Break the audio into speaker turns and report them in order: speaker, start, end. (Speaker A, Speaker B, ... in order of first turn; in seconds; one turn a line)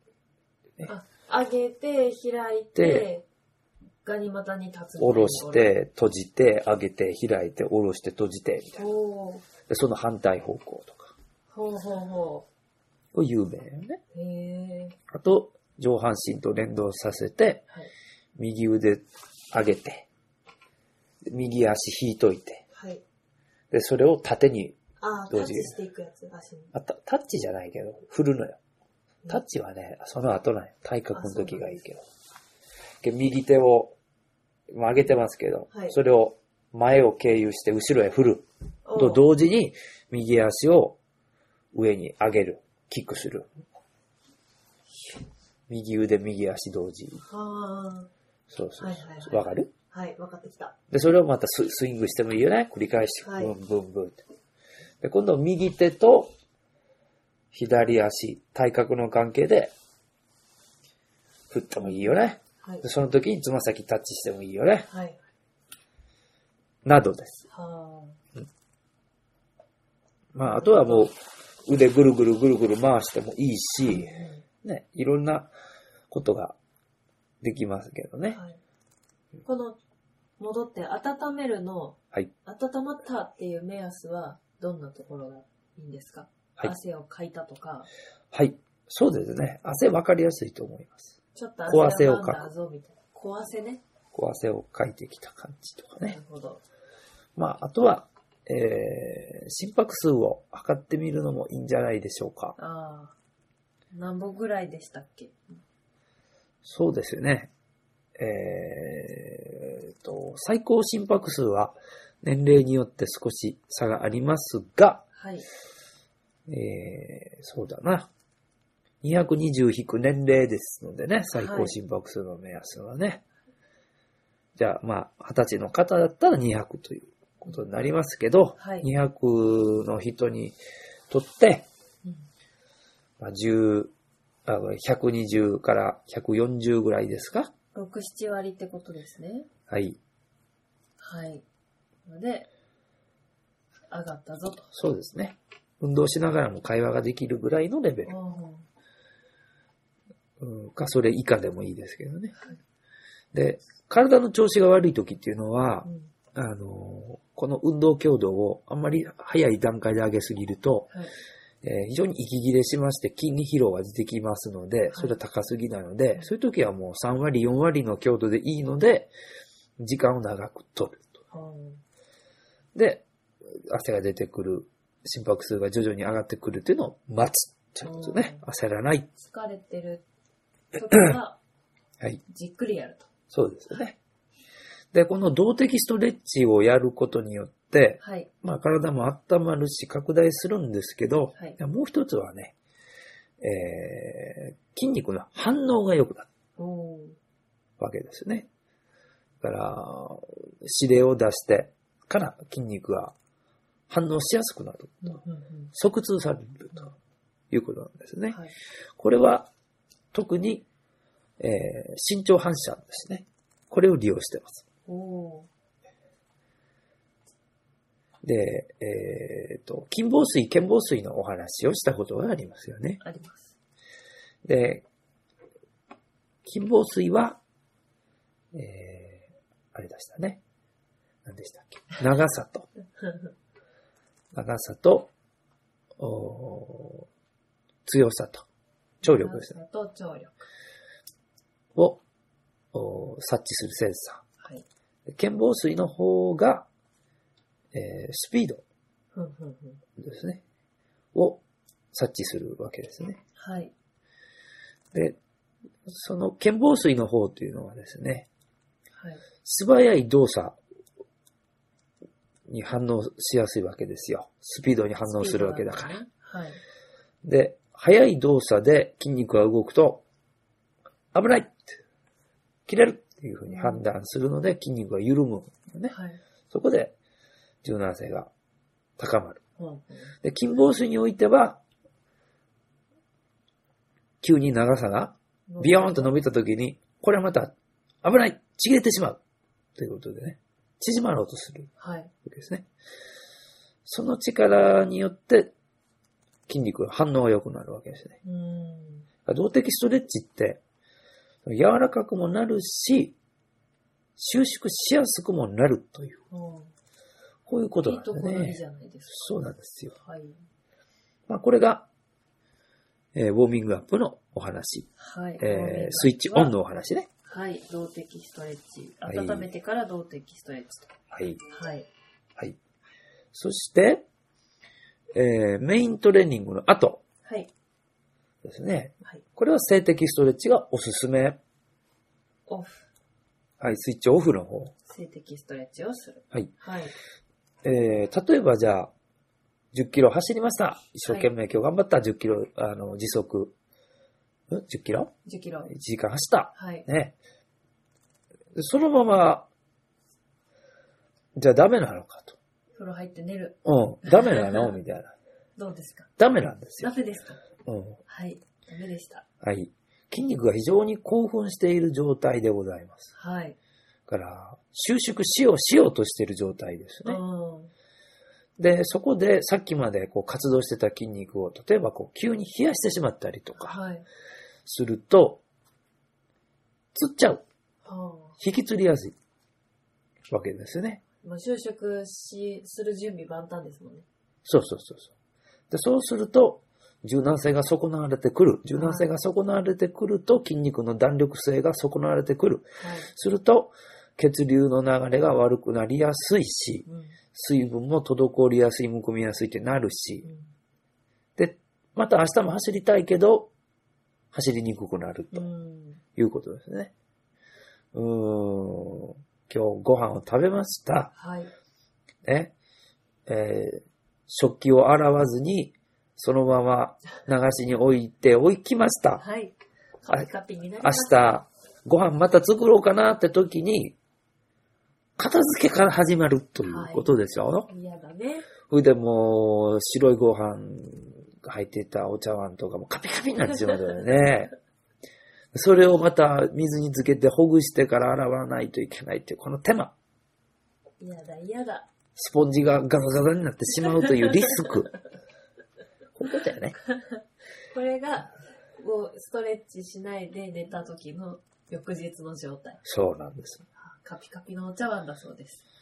Speaker A: 0.8-3.3
Speaker B: 2.8-3.1
Speaker A: 4.0-5.7
Speaker B: 5.0-8.8
Speaker A: 8.8-9.4
Speaker B: 9.7-11.2
Speaker A: 11.5-12.5
Speaker B: 13.1-14.0
Speaker A: 14.1-15.0
Speaker B: 15.1-17.6
Speaker B: 18.4-20.1
Speaker B: 21.2-22.6
Speaker A: 22.7-23.0
Speaker B: 23.7-24.8
Speaker A: 25.0-26.7
Speaker B: 25.3-25.8
Speaker B: 26.7-28.6
Speaker B: 29.3-32.0
Speaker A: 31.1-31.8
Speaker B: 33.0-34.0
Speaker B: 34.7-41.0
Speaker A: 35.7-36.0
Speaker A: 38.9-39.2
Speaker B: 41.7-43.5
Speaker B: 45.7-47.2
Speaker A: 47.2-48.1
Speaker B: 48.5-49.7
Speaker A: 48.8-50.8
Speaker B: 50.9-54.2
Speaker A: 53.2-53.5
Speaker B: 55.0-56.3
Speaker B: 57.5-59.7
Speaker B: 61.5-64.9
Speaker A: 64.9-65.2
Speaker B: 66.8-67.4
Speaker A: 67.5-68.2
Speaker B: 70.3-75.5
Speaker A: 70.4-71.1
Speaker A: 73.9-74.4
Speaker B: 76.1-76.6
Speaker B: 77.4-78.4
Speaker A: 78.3-78.6
Speaker A: 79.5-79.8
Speaker A: 80.4-87.9
Speaker B: 88.3-91.2
Speaker A: 91.3-93.8
Speaker B: 91.7-92.5
Speaker B: 94.1-96.2
Speaker A: 96.0-96.6
Speaker B: 97.4-102.5
Speaker A: 102.6-103.2
Speaker A: 103.9-105.6
Speaker B: 106.7-107.5
Speaker B: 108.2-115.0
Speaker A: 115.2-115.5
Speaker B: 116.5-118.1
Speaker B: 119.0-123.2
Speaker A: 121.3-121.8
Speaker B: 124.6-130.6
Speaker A: 128.6-128.9
Speaker B: 131.1-131.7
Speaker B: 133.2-133.9
Speaker B: 134.5-137.5
Speaker A: 137.8-139.5
Speaker B: 139.7-140.0
Speaker A: 141.0-141.4
Speaker A: 142.1-142.5
Speaker A: 143.9-144.7
Speaker B: 144.7-148.1
Speaker A: 148.1-148.7
Speaker B: 150.4-152.4
Speaker B: 153.3-160.9
Speaker A: 155.8-156.1
Speaker B: 161.6-169.1
Speaker A: 164.9-165.2
Speaker B: 169.8-171.1
Speaker A: 171.3-171.8
Speaker B: 172.8-173.1
Speaker B: 173.6-179.1
Speaker A: 177.8-178.4
Speaker A: 179.2-180.0
Speaker A: 180.7-181.4
Speaker A: 182.3-183.1
Speaker B: 183.3-184.0
Speaker B: 184.9-192.6
Speaker A: 188.0-188.3
Speaker B: 193.4-196.3
Speaker A: 196.6-197.2
Speaker B: 197.8-198.5
Speaker B: 199.4-203.2
Speaker B: 203.9-205.2
Speaker A: 205.0-205.7
Speaker B: 205.7-206.9
Speaker B: 207.5-208.4
Speaker B: 209.0-209.5
Speaker B: 210.1-210.7
Speaker B: 211.4-214.6
Speaker A: 214.9-215.5
Speaker B: 218.2-223.0
Speaker A: 223.0-223.6
Speaker B: 224.4-224.9
Speaker B: 226.4-227.4
Speaker B: 228.5-230.4
Speaker B: 231.2-232.7
Speaker B: 234.3-235.1
Speaker B: 236.0-237.1
Speaker B: 237.9-238.5
Speaker B: 239.0-239.5
Speaker A: 239.0-240.4
Speaker B: 241.8-242.0
Speaker B: 242.7-244.2
Speaker B: 245.1-246.7
Speaker B: 247.7-248.6
Speaker A: 249.2-249.8
Speaker B: 250.0-250.4
Speaker B: 251.1-251.4
Speaker B: 251.9-253.2
Speaker A: 253.4-253.7
Speaker B: 254.9-255.2
Speaker B: 255.9-258.3
Speaker B: 259.4-260.6
Speaker B: 262.5-266.0
Speaker A: 265.1-266.6
Speaker B: 267.2-270.0
Speaker B: 271.1-271.8
Speaker B: 272.7-275.9
Speaker A: 273.5-273.8
Speaker A: 275.9-276.2
Speaker B: 276.5-276.9
Speaker B: 277.6-278.3
Speaker B: 279.0-279.4
Speaker A: 279.6-280.1
Speaker B: 280.2-281.6
Speaker B: 284.2-289.2
Speaker A: 285.5-286.1
Speaker B: 289.8-291.7
Speaker A: 291.8-292.1
Speaker B: 292.2-292.7
Speaker B: 293.9-295.5
Speaker B: 296.5-298.2
Speaker A: 298.2-299.1
Speaker B: 299.3-300.6
Speaker B: 301.5-303.2
Speaker B: 304.2-306.2
Speaker A: 306.3-306.7
Speaker B: 307.5-309.9
Speaker A: 307.8-309.3
Speaker A: 309.9-310.4
Speaker B: 311.3-311.9
Speaker B: 313.1-317.1
Speaker A: 315.0-316.5
Speaker A: 317.3-320.9
Speaker B: 319.1-319.5
Speaker B: 321.1-321.4
Speaker A: 321.5-321.9
Speaker B: 323.3-324.1
Speaker B: 325.1-327.0
Speaker A: 327.2-327.5
Speaker B: 328.4-331.4
Speaker A: 332.5-332.9
Speaker B: 333.6-334.7
Speaker A: 334.9-336.9
Speaker B: 337.6-338.9
Speaker B: 339.7-343.6
Speaker B: 344.5-345.1
Speaker A: 345.3-345.7
Speaker B: 345.7-347.2
Speaker A: 346.6-346.9
Speaker B: 348.6-349.5
Speaker B: 351.4-352.4
Speaker A: 352.8-354.7
Speaker B: 353.6-355.1
Speaker A: 355.6-356.1
Speaker B: 356.2-356.9
Speaker A: 356.8-357.4
Speaker B: 357.7-358.0
Speaker A: 358.1-359.2
Speaker B: 359.4-363.1
Speaker A: 363.1-363.6
Speaker B: 364.1-367.2
Speaker A: 367.1-367.7
Speaker B: 368.6-373.8
Speaker A: 373.6-374.1
Speaker B: 374.7-375.4
Speaker B: 376.9-377.4
Speaker A: 377.8-378.4
Speaker B: 378.4-379.2
Speaker B: 380.3-381.0
Speaker A: 381.2-384.1
Speaker B: 384.4-385.1
Speaker B: 385.7-400.3
Speaker A: 388.8-389.1
Speaker A: 392.8-393.1
Speaker A: 396.9-397.2
Speaker B: 401.4-403.5
Speaker B: 404.3-405.5
Speaker A: 405.3-406.0
Speaker B: 406.2-406.9
Speaker B: 407.9-411.1
Speaker A: 411.1-411.5
Speaker B: 412.2-412.5
Speaker B: 413.3-419.2
Speaker A: 419.2-421.4
Speaker B: 420.8-424.0
Speaker B: 425.2-427.7
Speaker A: 426.6-427.1
Speaker A: 427.7-428.5
Speaker B: 428.7-434.5
Speaker B: 435.5-439.9
Speaker A: 441.0-441.9
Speaker B: 442.2-444.9
Speaker A: 443.9-444.7
Speaker B: 446.2-446.8
Speaker A: 446.9-447.2
Speaker A: 447.7-452.8
Speaker B: 452.9-453.6
Speaker A: 453.8-455.6